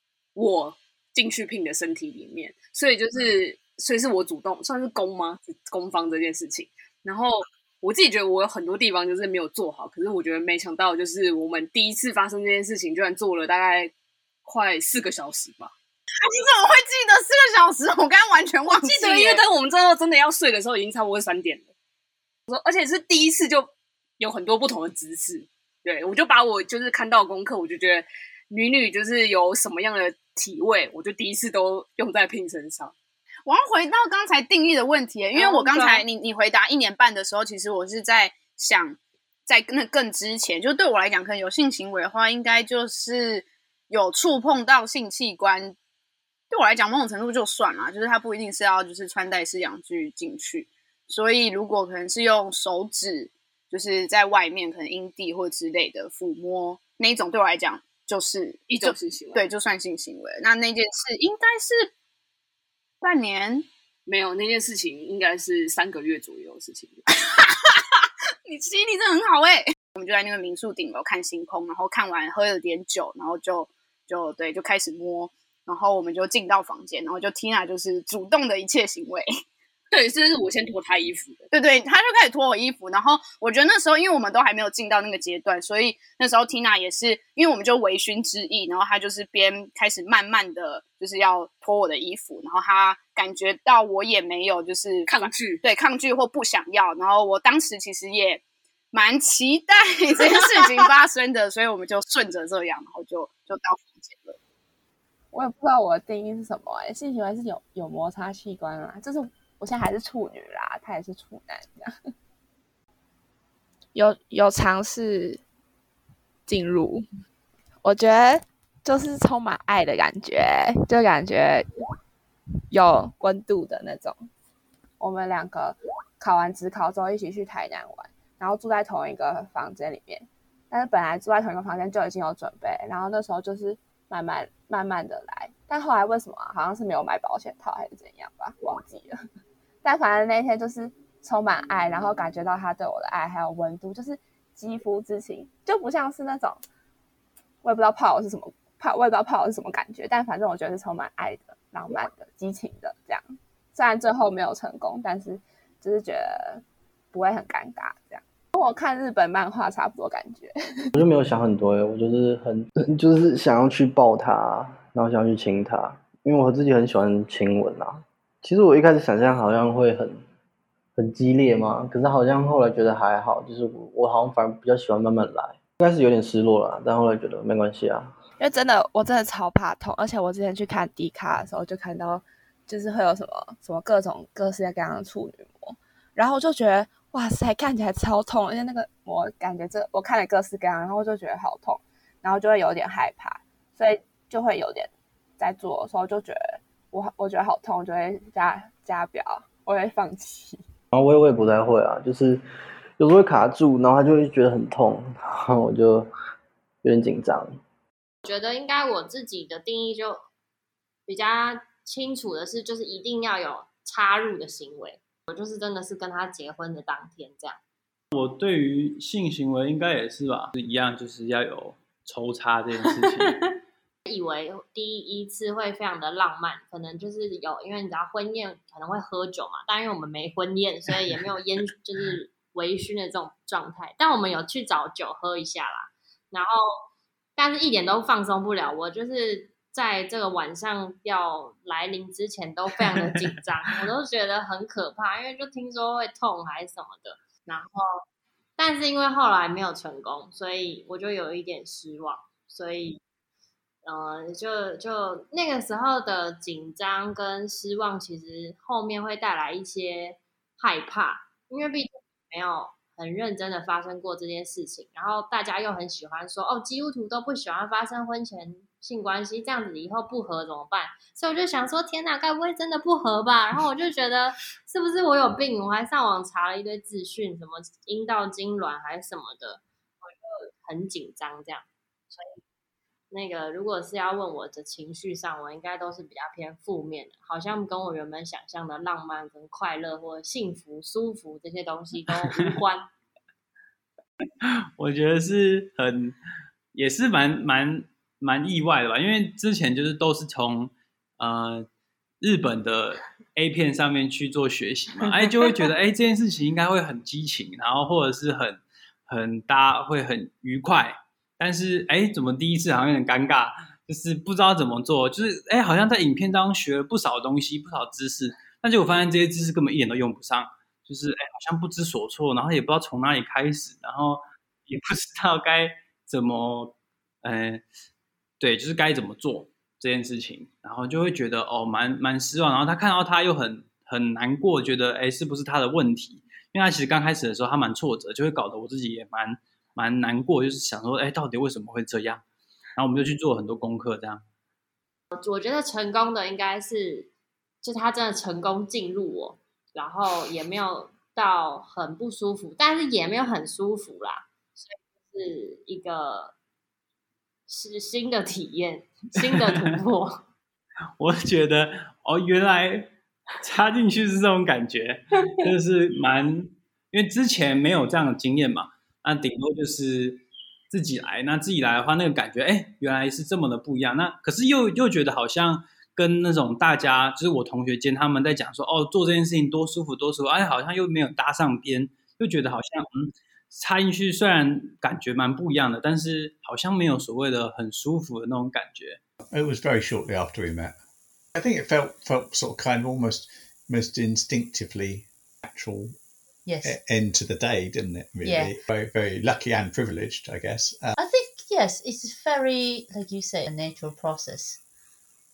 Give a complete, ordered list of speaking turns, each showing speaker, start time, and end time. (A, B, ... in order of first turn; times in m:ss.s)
0:00.4-0:13.9 A
0:14.4-0:15.7 A
0:16.2-0:19.4 B
0:18.8-0:21.7 A
0:22.5-0:32.9 A
0:33.5-0:45.8 B
0:35.4-0:36.0 A
0:46.5-1:01.9 B
0:58.7-0:59.5 A
1:03.0-1:03.7 B
1:04.1-1:07.0 A
1:07.2-1:07.8 B
1:08.4-1:19.3 B
1:19.9-1:21.5 A
1:21.5-1:44.4 B
1:35.1-1:35.6 A
1:45.3-1:51.9 C
1:53.9-1:55.4 C
1:56.5-1:57.0 C
1:57.8-2:01.7 C
2:02.7-2:04.3 C
2:05.0-2:19.2 C
2:19.8-2:26.6 C
2:27.6-2:40.9 C
2:41.0-2:50.2 D
2:51.0-2:58.2 D
2:58.4-3:20.6 C
3:20.9-3:22.4 D
3:23.0-3:26.1 D
3:26.8-3:27.6 D
3:28.2-3:30.2 E
3:31.1-3:37.6 E
3:38.1-3:43.4 F
3:44.1-3:56.8 E
3:57.4-4:08.0 E
4:08.6-4:13.0 E
4:13.8-4:42.4 E
4:43.1-4:52.9 E
4:54.4-4:56.2 F
4:56.7-5:01.7 F
5:02.2-5:27.6 F
5:28.4-5:42.2 F
5:42.8-5:44.2 F
5:45.2-5:47.1 E
5:47.6-5:56.4 E
5:57.5-6:00.2 E
6:01.0-6:29.0 F
6:29.3-6:30.8 G
6:31.4-6:36.0 G
6:36.5-6:36.8 H
6:36.6-6:41.0 G
6:38.2-6:38.5 H
6:41.0-6:44.6 H